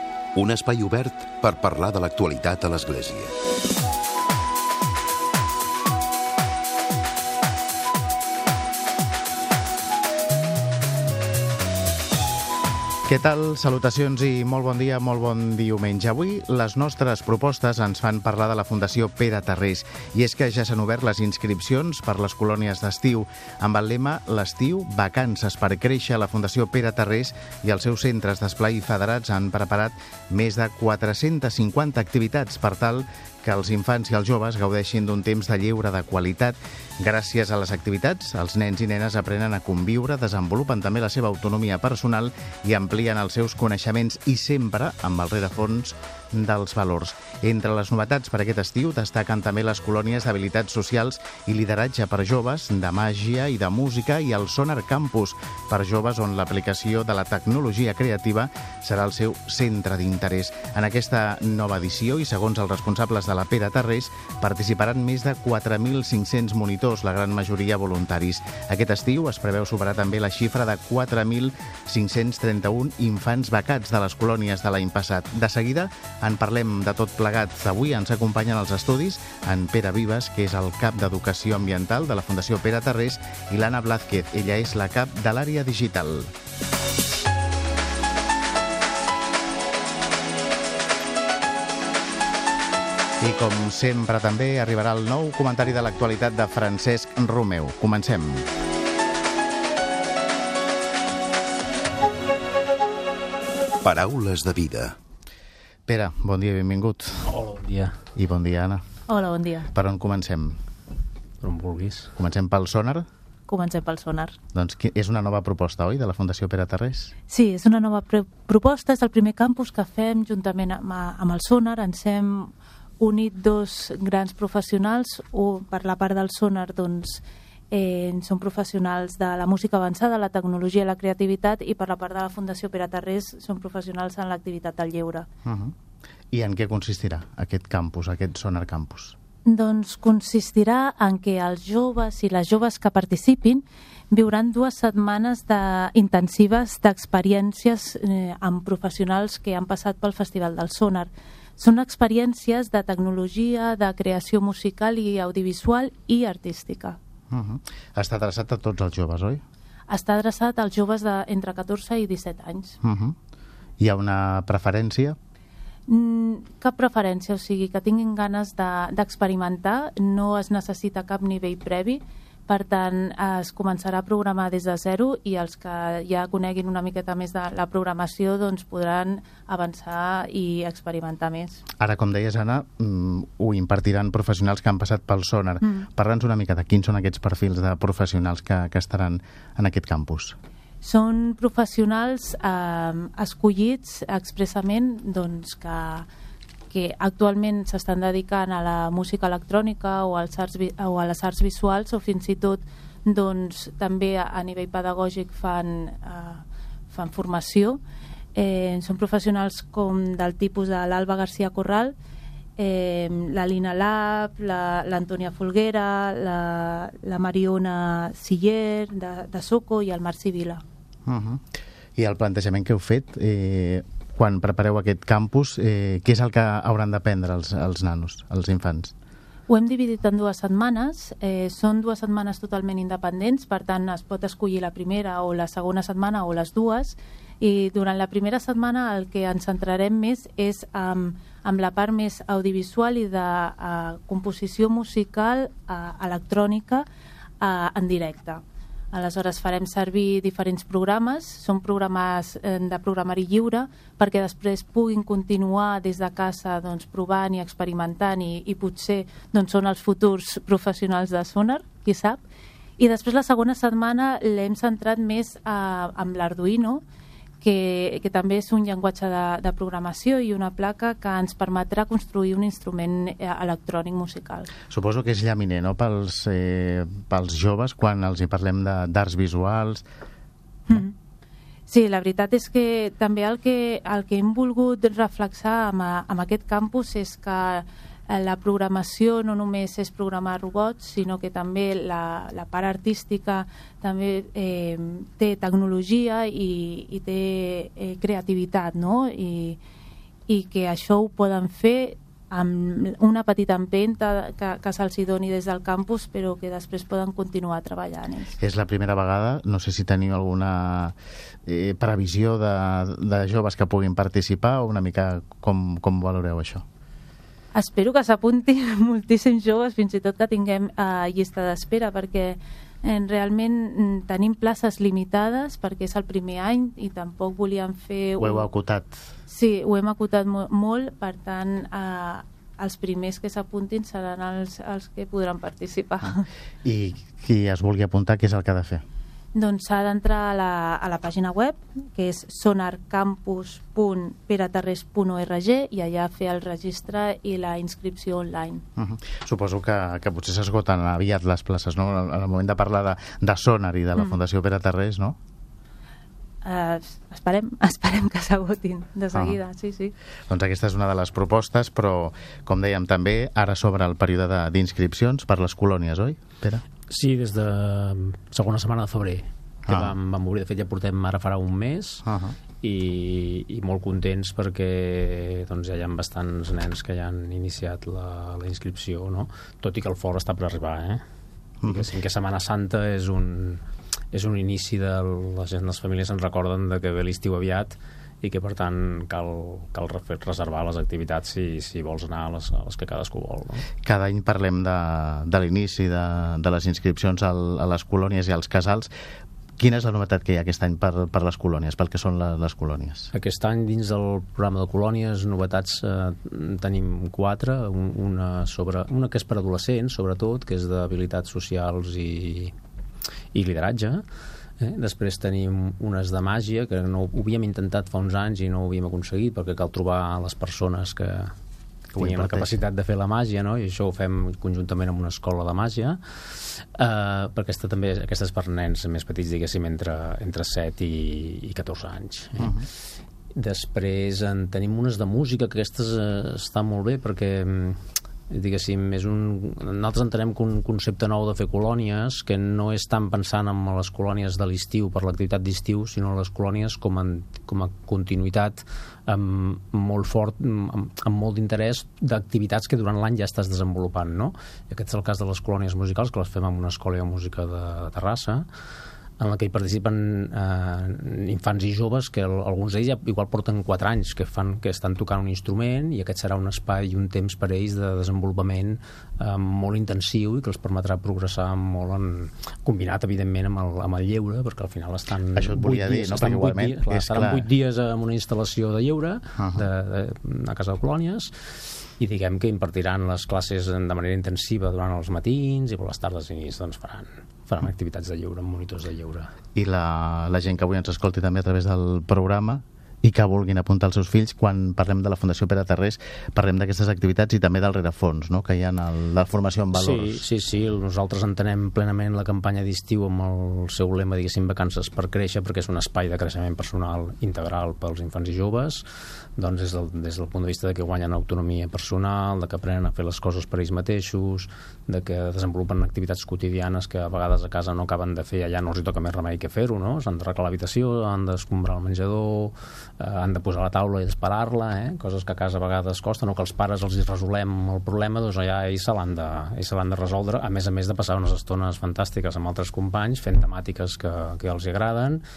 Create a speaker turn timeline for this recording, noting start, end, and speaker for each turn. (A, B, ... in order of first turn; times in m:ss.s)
0:00.3-0:03.3 A
0:13.1-1:26.3 B
1:33.2-1:38.5 B
1:43.8-1:45.0 A
1:45.9-1:47.3 B
1:47.2-1:48.0 C
1:48.1-1:48.8 B
1:49.1-1:49.7 D
1:49.7-1:50.6 B
1:51.4-1:52.1 C
1:52.2-1:53.0 B
1:53.5-1:54.4 D
1:54.5-1:57.1 B
1:57.3-2:15.3 D
2:15.4-2:15.7 B
2:16.3-2:19.2 B
2:19.4-2:37.0 D
2:37.3-2:39.4 B
2:39.9-2:42.8 D
2:42.8-2:43.2 B
2:43.8-2:45.2 B
2:45.9-3:01.6 D
3:01.8-3:10.4 B
3:05.6-3:05.9 D
3:10.8-3:16.1 D
3:16.7-3:27.8 D
3:28.3-3:31.9 D
3:32.6-3:40.6 D
3:41.0-3:48.9 B
3:49.5-4:06.8 D
4:07.4-4:22.2 D
4:22.8-4:26.8 D
4:27.4-4:34.5 D
4:34.7-4:39.8 B
4:41.7-4:59.6 D
5:00.3-5:08.4 D
5:08.4-5:16.6 B
5:17.5-5:28.5 D
5:28.2-5:29.0 B
5:29.3-5:36.3 D
5:36.6-5:38.8 B
5:39.3-5:48.6 D
5:48.8-5:55.2 B
5:56.4-5:59.9 D
6:00.3-6:06.6 B
6:06.9-6:12.0 C
6:09.7-6:09.9 B
6:12.0-6:12.4 B
6:12.6-6:21.0 C
6:21.6-6:23.6 C
6:24.1-6:33.7 C
6:33.8-6:38.9 B
6:39.6-6:43.1 B
6:43.1-6:52.5 C
6:53.3-6:54.0 C
6:54.6-7:01.3 C
7:01.9-7:02.6 B
7:02.0-7:12.6 C
7:12.4-7:12.6 B
7:13.3-7:38.4 C
7:39.2-8:09.3 C
7:55.3-7:57.4 B
7:59.4-7:59.7 B
8:09.5-8:20.2 B
8:19.7-8:28.8 C
8:29.4-8:55.2 C